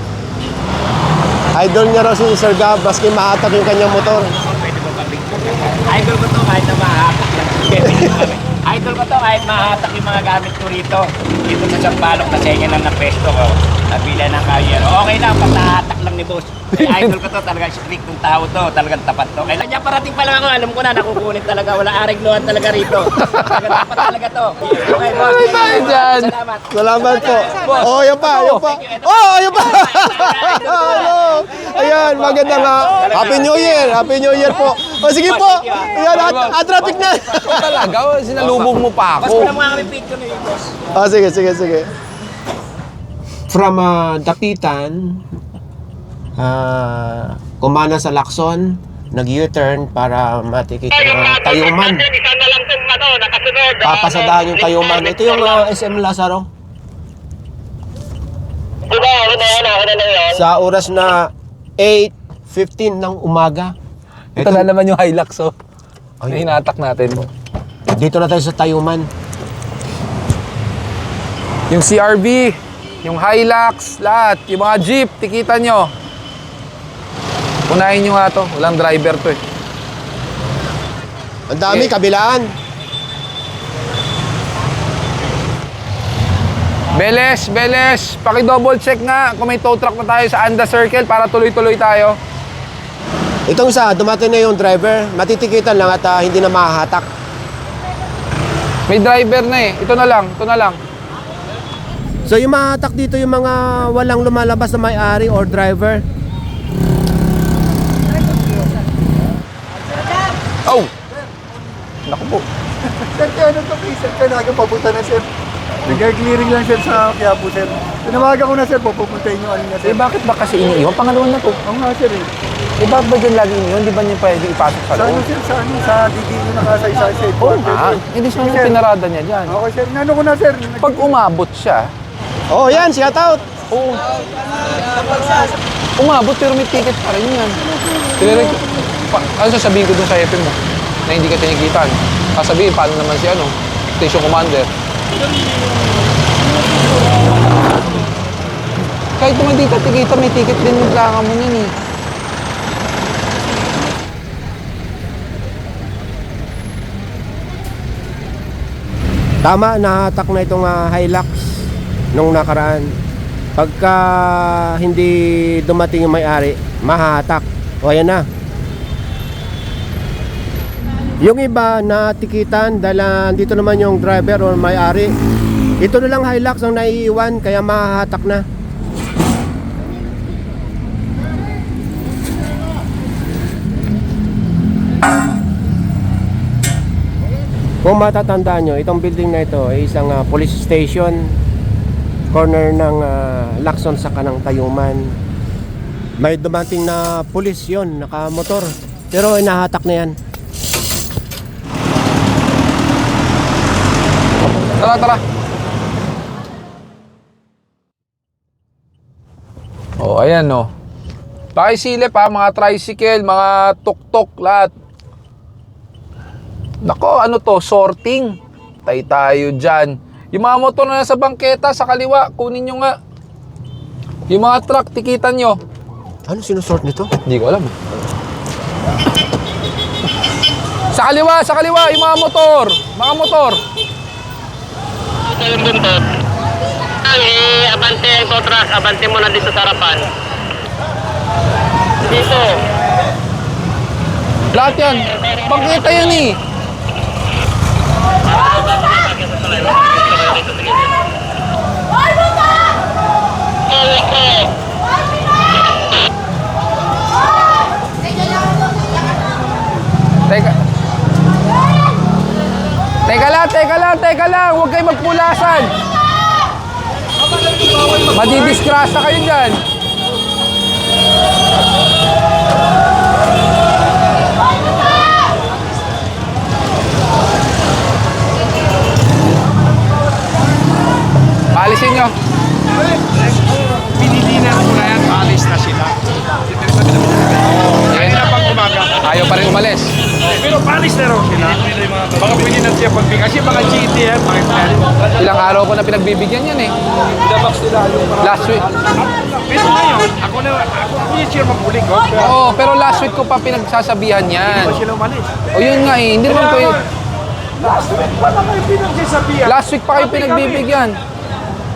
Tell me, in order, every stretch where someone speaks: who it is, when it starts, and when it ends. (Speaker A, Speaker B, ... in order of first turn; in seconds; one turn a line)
Speaker A: 1.5-4.3
Speaker B: 4.2-34.0
Speaker C: 16.8-17.1
Speaker C: 23.2-23.7
Speaker C: 24.9-26.3
Speaker A: 26.7-37.9
Speaker C: 27.6-28.6
Speaker B: 35.1-37.6
Speaker C: 36.1-36.6
Speaker C: 37.4-39.6
Speaker B: 38.3-40.8
Speaker A: 40.9-41.9
Speaker A: 43.5-45.2
Speaker A: 46.4-52.0
Speaker D: 50.9-55.6
Speaker A: 53.8-56.5
Speaker D: 58.9-60.4
Speaker A: 60.3-63.8
Speaker A: 64.4-64.7
Speaker C: 64.4-65.5
Speaker A: 66.2-66.5
Speaker C: 66.3-67.3
Speaker A: 67.9-69.1
Speaker C: 71.7-75.9
Speaker C: 77.7-79.4
Speaker A: 81.5-82.5
Speaker C: 87.0-92.2
Speaker A: 93.5-97.1
Speaker C: 98.9-100.8
Speaker A: 102.3-106.0
Speaker C: 112.1-112.4
Speaker E: 113.2-115.2
Speaker E: 115.9-120.0
Speaker C: 119.8-121.6
Speaker E: 121.7-122.3
Speaker C: 122.8-125.3
Speaker E: 125.0-128.8
Speaker C: 127.4-129.6
Speaker E: 129.5-131.1
Speaker C: 130.8-131.9
Speaker A: 132.5-133.4
Speaker C: 133.7-134.1
Speaker E: 134.9-135.4
Speaker C: 136.0-137.6
Speaker C: 138.2-144.7
Speaker C: 149.2-151.7
Speaker A: 159.4-162.9
Speaker A: 163.6-168.3
Speaker A: 171.2-175.1
Speaker A: 175.8-178.4
Speaker A: 187.8-191.3
Speaker A: 192.3-195.1
Speaker A: 196.2-200.2
Speaker C: 204.8-205.2
Speaker C: 210.0-210.7
Speaker C: 211.6-214.7
Speaker C: 216.8-222.9
Speaker C: 224.3-225.6
Speaker A: 226.3-227.1
Speaker C: 227.3-227.8
Speaker C: 230.9-233.6
Speaker D: 235.3-236.0
Speaker D: 237.1-240.1
Speaker D: 242.0-242.7
Speaker C: 244.5-246.4
Speaker D: 248.3-251.0
Speaker D: 253.7-254.5
Speaker C: 260.3-260.6
Speaker C: 263.1-265.7
Speaker C: 268.1-269.6
Speaker C: 281.5-282.1
Speaker F: 283.8-289.0
Speaker C: 287.9-288.2
Speaker C: 289.0-290.0
Speaker F: 290.2-295.3
Speaker C: 295.2-296.8
Speaker F: 297.1-302.3
Speaker C: 298.2-298.6
Speaker C: 302.2-304.8
Speaker F: 304.5-305.5
Speaker C: 305.5-306.8
Speaker F: 306.3-306.9
Speaker F: 307.6-310.6
Speaker C: 309.5-311.0